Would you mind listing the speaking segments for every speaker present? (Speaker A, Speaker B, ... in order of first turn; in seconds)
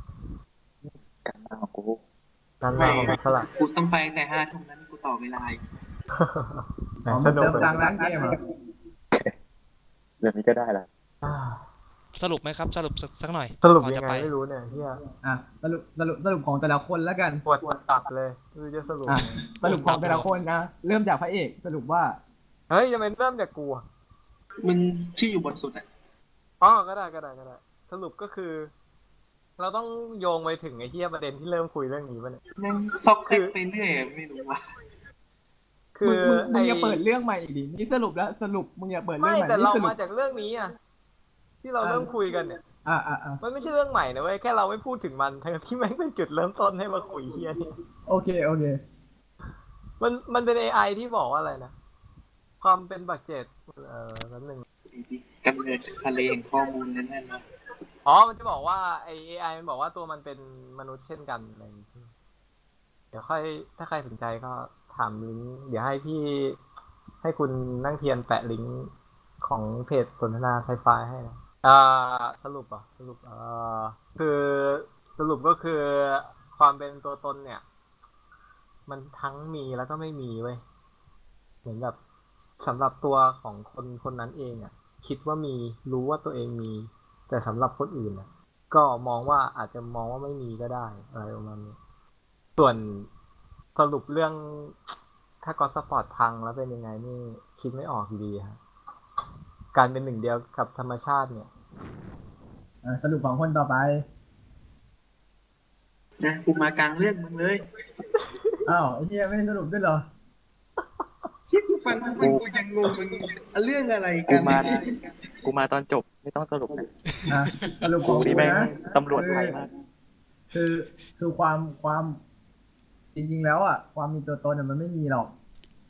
Speaker A: 1.2-2.0, 10.2-10.9, 112.1-112.5, 114.3-114.8, 115.5-116.9, 118.0-119.7
Speaker B: 2.6-3.5, 6.1-8.1, 11.2-11.6, 13.6-15.0, 17.4-19.4, 22.7-23.9, 26.6-28.7, 29.6-32.4, 33.3-33.5, 35.9-37.0, 39.2-40.7, 41.6-42.6, 43.4-47.6, 50.0-51.7, 52.6-54.6, 58.0-62.1, 63.1-66.6, 67.2-77.6, 78.9-80.6, 81.6-82.0, 82.6-91.8, 92.6-93.1, 93.8-94.8, 95.4-98.6, 99.7-101.5, 108.2-108.5
Speaker C: 2.8-5.6, 24.6-25.9, 32.6-34.6, 54.9-57.5, 106.2-107.6, 111.5-115.2
Speaker D: 7.1-8.4, 15.2-17.4, 19.1-22.2, 36.0-40.0, 41.8-42.1, 42.8-43.4, 48.1-48.8, 102.8-104.0, 108.7-110.0, 117.3-119.6, 120.5-122.2, 123.2-125.3
Speaker E: 12.2-14.3, 19.6-20.3